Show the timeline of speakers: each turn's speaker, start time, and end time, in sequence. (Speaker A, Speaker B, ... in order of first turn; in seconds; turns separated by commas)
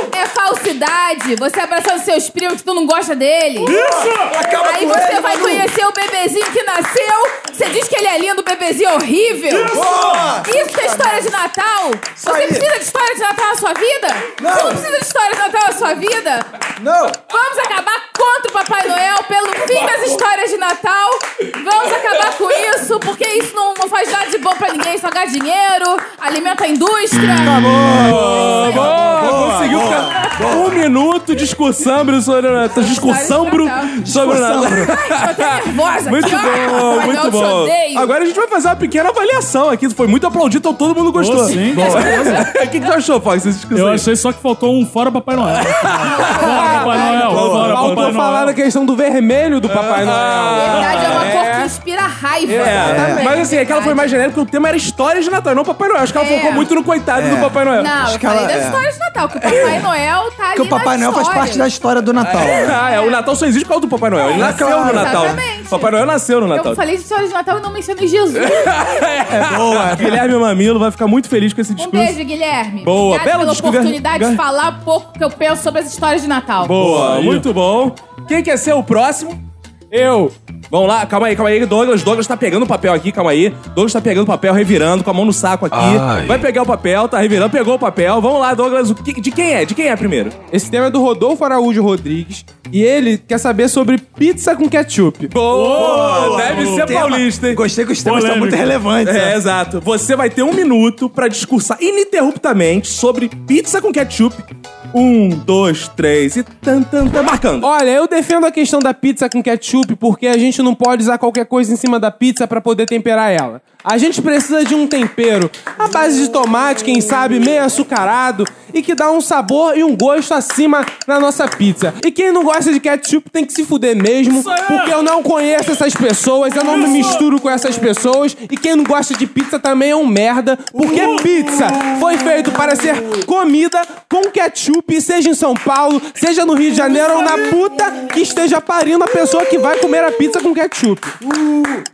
Speaker A: 0.1-3.8, Speaker B: 3.6-4.3, Speaker C: 3.7-5.7, Speaker A: 4.6-9.8, Speaker B: 9.5-10.4, Speaker C: 9.7-11.3, Speaker A: 10.4-16.5, Speaker C: 12.2-12.7, Speaker C: 14.4-14.8, Speaker C: 16.8-17.2, Speaker A: 17.3-27.8, Speaker C: 27.4-30.7, Speaker D: 27.9-44.0, Speaker A: 28.6-28.9, Speaker A: 32.7-34.1, Speaker C: 34.0-34.9, Speaker A: 34.7-38.1, Speaker B: 41.1-42.5, Speaker A: 41.8-42.5, Speaker B: 43.7-48.5, Speaker D: 45.6-48.1, Speaker A: 46.2-47.0, Speaker E: 46.4-51.7, Speaker C: 47.3-47.7, Speaker D: 49.6-51.5, Speaker A: 50.6-54.1, Speaker D: 52.5-58.0, Speaker E: 52.6-53.1, Speaker C: 52.8-53.2, Speaker A: 56.1-56.6, Speaker C: 57.1-58.8, Speaker A: 57.7-61.7, Speaker D: 59.5-59.8, Speaker C: 60.5-62.8, Speaker D: 62.2-66.8, Speaker A: 62.6-63.2, Speaker A: 64.1-65.9, Speaker C: 64.3-65.4, Speaker A: 66.5-69.3, Speaker D: 68.4-72.1, Speaker C: 69.3-70.2, Speaker A: 71.8-76.7, Speaker D: 72.8-74.4, Speaker D: 76.6-79.4, Speaker B: 76.8-77.5, Speaker E: 79.9-80.3, Speaker D: 80.7-90.3, Speaker E: 90.5-95.4, Speaker D: 95.3-97.6, Speaker B: 95.5-96.9, Speaker C: 95.7-99.4, Speaker B: 98.0-98.7, Speaker D: 99.0-107.7, Speaker E: 107.6-141.2, Speaker B: 124.2-125.0, Speaker B: 126.6-127.2, Speaker B: 130.8-131.3, Speaker C: 141.4-141.8